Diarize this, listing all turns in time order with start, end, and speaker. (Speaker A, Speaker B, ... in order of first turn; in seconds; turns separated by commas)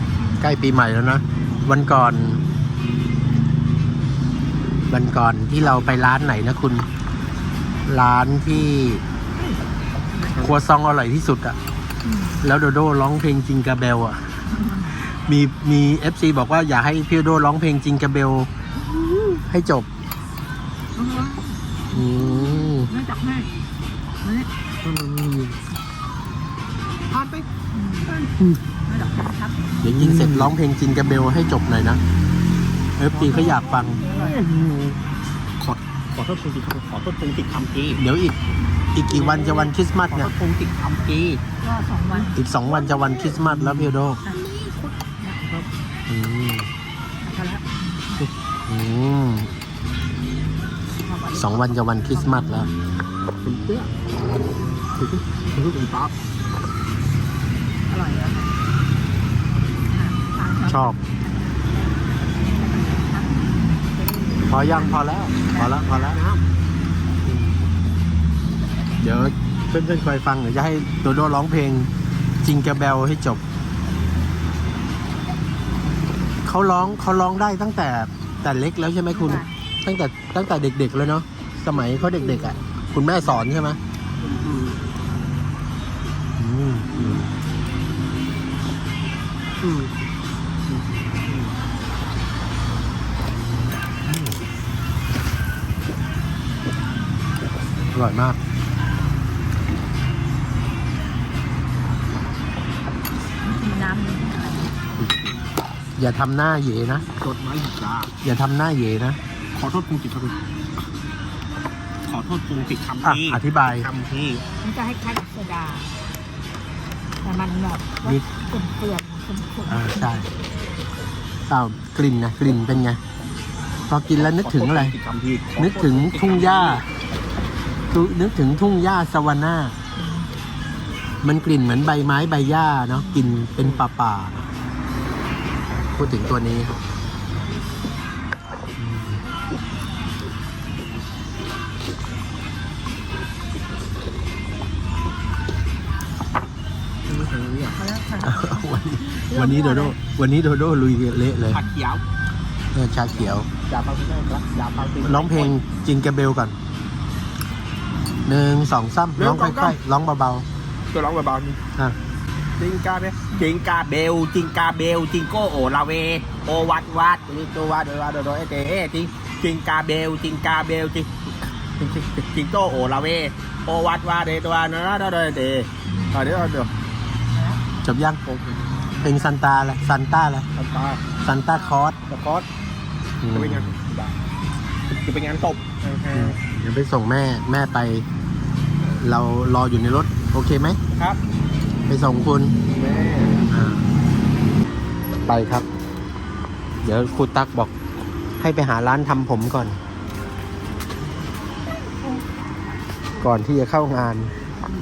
Speaker A: 0.4-2.4, Speaker A: 4.9-6.9, Speaker B: 5.7-6.1, Speaker A: 7.9-9.0, Speaker C: 10.2-10.6, Speaker A: 10.4-11.6, Speaker C: 12.0-12.5, Speaker A: 12.4-14.4, Speaker C: 14.5-15.0, Speaker A: 15.0-18.5, Speaker B: 19.1-19.4, Speaker A: 19.5-19.9, Speaker C: 20.9-21.6, Speaker A: 21.9-22.9, Speaker C: 22.9-23.5, Speaker C: 24.2-24.5, Speaker B: 24.8-25.6, Speaker B: 27.1-27.5, Speaker C: 27.7-28.1, Speaker B: 28.1-28.5, Speaker C: 28.9-29.9, Speaker A: 29.8-32.0, Speaker B: 30.1-30.4, Speaker A: 33.0-34.0, Speaker B: 33.1-35.0, Speaker C: 33.2-34.5, Speaker B: 35.6-38.0, Speaker A: 38.0-38.4, Speaker A: 38.9-40.3, Speaker B: 39.1-41.4, Speaker C: 41.6-42.4, Speaker B: 42.1-45.7, Speaker A: 42.3-44.2, Speaker C: 45.2-45.5, Speaker A: 46.1-46.7, Speaker C: 47.2-48.2, Speaker A: 48.7-49.5, Speaker C: 51.0-52.6, Speaker A: 51.3-52.7, Speaker B: 53.4-54.1, Speaker B: 54.9-56.2, Speaker C: 57.9-58.6, Speaker C: 59.9-66.2, Speaker A: 60.7-61.0, Speaker A: 64.5-66.2, Speaker B: 66.0-66.4, Speaker A: 67.3-67.6, Speaker A: 69.0-71.9, Speaker A: 72.4-73.4, Speaker A: 76.5-83.8, Speaker C: 79.1-79.5, Speaker B: 81.8-82.4, Speaker B: 84.2-84.8, Speaker A: 86.4-86.9, Speaker B: 86.9-87.3, Speaker B: 89.6-89.9, Speaker B: 90.7-91.5, Speaker A: 94.0-94.4, Speaker A: 97.9-98.4, Speaker C: 103.4-104.8, Speaker B: 105.0-105.5, Speaker A: 106.0-107.1, Speaker B: 107.2-108.1, Speaker A: 108.2-109.2, Speaker B: 109.5-110.4, Speaker B: 112.1-114.4, Speaker A: 113.0-113.9, Speaker C: 114.6-116.0, Speaker C: 117.2-120.3, Speaker A: 119.7-120.3, Speaker A: 121.5-123.0, Speaker A: 123.9-125.0, Speaker B: 124.1-126.8, Speaker A: 125.6-126.9, Speaker A: 127.9-129.8, Speaker C: 130.0-130.3, Speaker A: 131.2-134.5, Speaker C: 132.9-133.4, Speaker A: 136.0-136.8, Speaker A: 138.8-139.2, Speaker B: 147.1-147.8, Speaker C: 147.7-149.9, Speaker A: 148.2-151.6, Speaker B: 151.5-152.0, Speaker A: 152.7-153.5, Speaker B: 153.1-155.6, Speaker A: 155.0-156.6, Speaker A: 158.3-160.5, Speaker B: 159.2-159.8, Speaker B: 160.9-161.6, Speaker B: 162.6-176.7, Speaker C: 175.9-176.5, Speaker C: 177.3-177.6, Speaker A: 177.8-178.2, Speaker B: 178.2-179.1, Speaker A: 179.0-180.5, Speaker B: 180.6-181.0, Speaker A: 181.2-182.0, Speaker B: 182.1-182.5, Speaker A: 183.2-183.7, Speaker B: 183.3-184.2, Speaker B: 184.9-186.4, Speaker A: 186.1-188.1, Speaker A: 188.8-190.8, Speaker B: 190.9-191.2, Speaker A: 191.9-192.6, Speaker B: 192.7-193.5, Speaker A: 193.5-193.9, Speaker A: 195.3-195.7, Speaker A: 196.8-197.7, Speaker A: 198.4-199.8, Speaker A: 203.2-204.3